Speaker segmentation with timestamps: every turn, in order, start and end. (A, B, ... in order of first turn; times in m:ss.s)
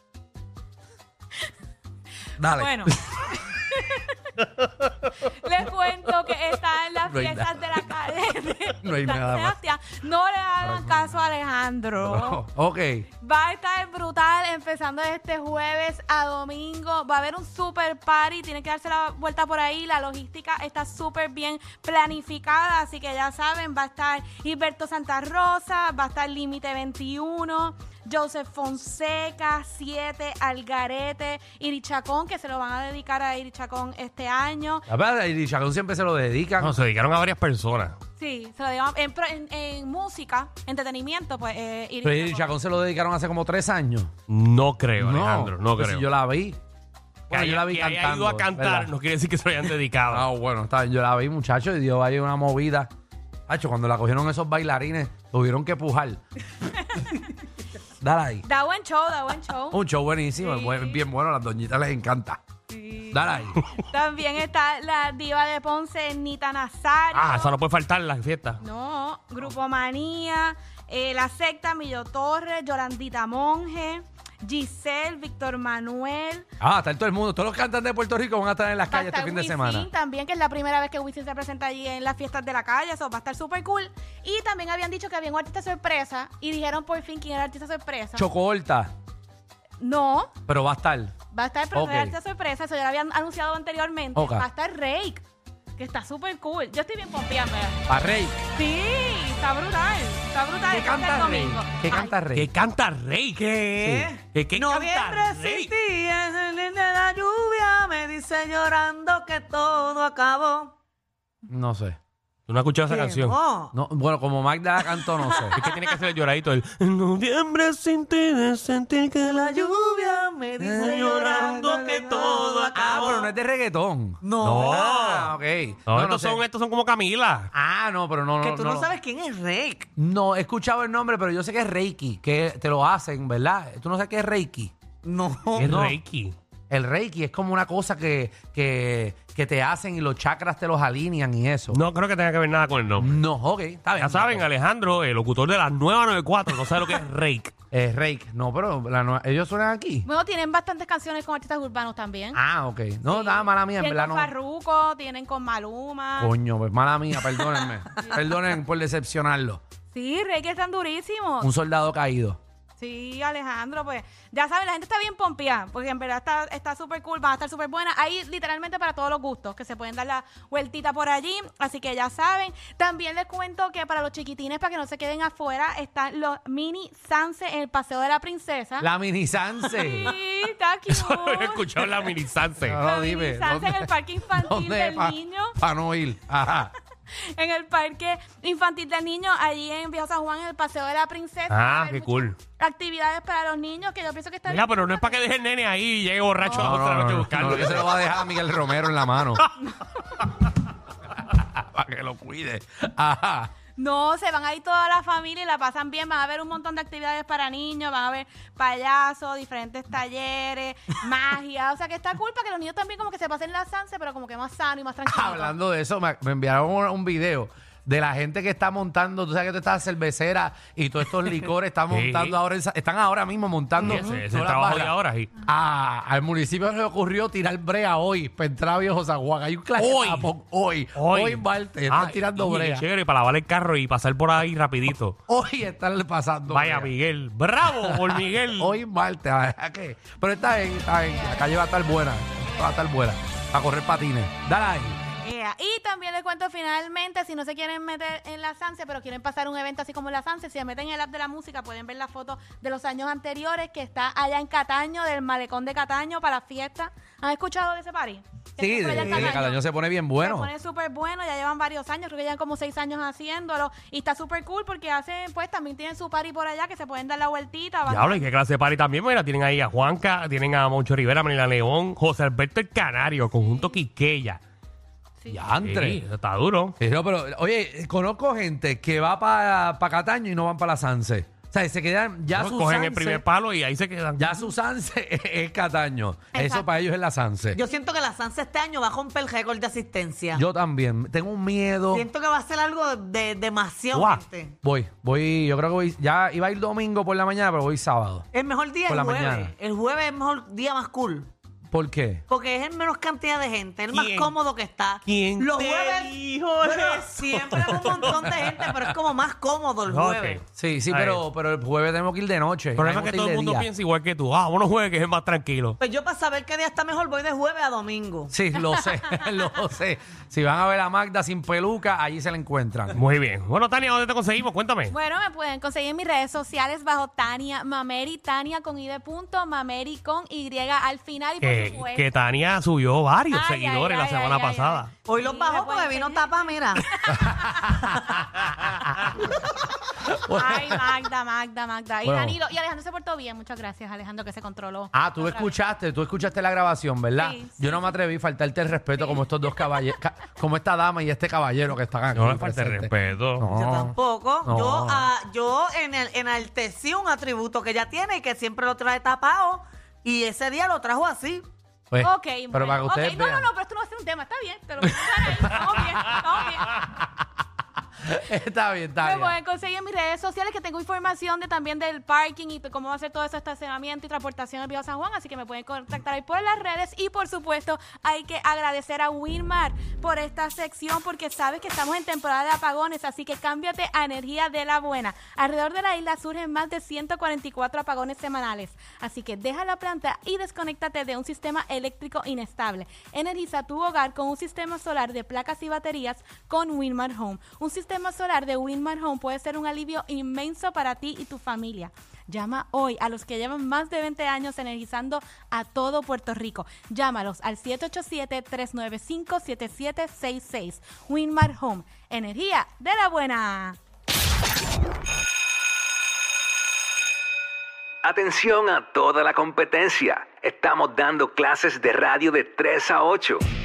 0:02.4-0:03.0 A
0:02.4-0:04.2 B
0:05.2-0:12.4 B
0:07.0-0:07.8 A
0:08.8-0:09.6 A
0:10.6-0:11.0 A
0:12.0-0:13.1 A
0:13.2-0:34.8 B
0:34.9-0:36.8 A
0:36.6-0:38.0 C
0:38.2-0:42.4 B
0:42.0-0:44.1 A
0:44.3-0:46.0 C
0:45.0-0:46.6 A
0:47.3-0:50.2 C
0:47.3-0:48.9 A
0:50.1-0:52.9 A
0:53.5-0:56.2 A
0:56.6-0:57.3 B
0:58.0-0:58.4 A
0:58.4-0:59.8 B
0:59.7-1:02.4 A
1:00.4-1:01.0 B
1:02.7-1:07.6 B
1:03.1-1:03.6 A
1:07.1-1:08.6 C
1:08.6-1:16.5 B
1:16.6-1:19.9 A
1:18.9-1:28.3 B
1:28.2-1:28.9 A
1:29.8-1:30.3 B
1:30.5-1:31.1 A
1:31.3-1:35.2 B
1:31.7-1:32.2 A
1:34.1-1:34.4 A
1:35.8-1:37.8 B
1:37.9-1:38.4 A
1:38.5-1:42.1 B
1:40.7-1:42.5 A
1:42.3-1:45.7 C
1:43.7-1:50.7 D
1:51.5-1:52.0 A
1:52.5-1:53.4 C
1:52.9-1:53.7 D
1:53.7-1:55.6 A
1:54.9-1:55.8 D
1:55.5-1:59.8 C
1:59.2-2:03.3 D
2:00.6-2:04.2 A
2:00.8-2:03.3 C
2:04.2-2:05.3 D
2:04.4-2:05.3 C
2:04.9-2:06.4 A
2:05.9-2:07.5 C
2:07.5-2:08.9 A
2:08.4-2:09.9 D
2:10.0-2:14.7 A
2:15.0-2:15.9 D
2:15.5-2:16.3 C
2:15.6-2:16.0 A
2:16.7-2:21.8 A
2:21.7-2:23.2 C
2:23.0-2:24.4 A
2:24.0-2:27.5 C
2:27.7-2:30.1 A
2:30.0-2:32.4 B
2:32.3-2:34.3 A
2:33.0-2:36.3 B
2:36.2-2:39.6 A
2:39.9-2:41.5 B
2:41.4-2:42.4 A
2:42.8-2:58.9 B
2:58.8-3:00.1 A
2:59.6-3:01.9 B
3:00.9-3:02.8 C
3:02.6-3:06.7 A
3:02.8-3:05.6 B
3:07.2-3:15.2 B
3:11.5-3:12.4 C
3:14.5-3:18.1 C
3:16.4-3:16.7 B
3:16.5-3:19.4 A
3:21.3-3:23.5 A
3:23.8-3:35.5 B
3:35.0-3:52.8 A
3:41.9-3:42.4 C
3:43.8-3:45.3 C
3:49.8-3:50.3 C
3:51.0-3:55.2 C
3:55.3-3:56.9 A
3:56.5-3:58.8 C
3:57.7-4:05.0 A
4:01.1-4:01.5 B
4:02.4-4:02.8 B
4:05.2-4:19.6 B
4:18.6-4:20.5 A
4:18.9-4:19.4 D
4:20.2-4:28.2 B
4:27.9-4:34.4 C
4:33.3-4:33.8 B
4:35.3-4:36.0 A
4:35.6-4:36.7 C
4:36.8-4:43.2 A
4:42.3-4:44.3 C
4:44.2-4:47.6 A
4:46.3-4:46.6 D
4:47.5-4:50.4 D
4:50.3-4:52.1 A
4:51.9-4:54.6 D
4:53.9-4:54.2 C
4:54.6-4:58.3 A
4:58.3-5:01.3 D
4:58.9-4:59.5 A
5:01.7-5:02.2 A
5:02.3-5:10.4 D
5:03.9-5:04.4 C
5:05.0-5:09.0 C
5:09.8-5:11.2 C
5:10.5-5:13.7 A
5:12.8-5:15.8 C
5:15.8-5:18.3 D
5:18.3-5:23.0 A
5:22.9-5:24.9 C
5:24.9-5:32.1 B
5:31.4-5:34.9 C
5:33.3-5:38.2 B
5:35.0-5:36.9 D
5:37.1-5:38.8 A
5:40.1-5:40.9 A
5:40.3-5:45.5 B
5:42.0-5:42.4 A
5:44.9-5:55.1 A
5:47.2-5:47.9 B
5:48.9-5:49.8 B
5:52.1-5:53.5 C
5:53.5-6:01.5 D
6:01.9-6:03.5 A
6:02.0-6:06.8 B
6:05.0-6:05.6 A
6:06.7-6:07.0 A
6:08.0-6:09.4 A
6:09.0-6:53.8 B
6:58.0-7:03.4 E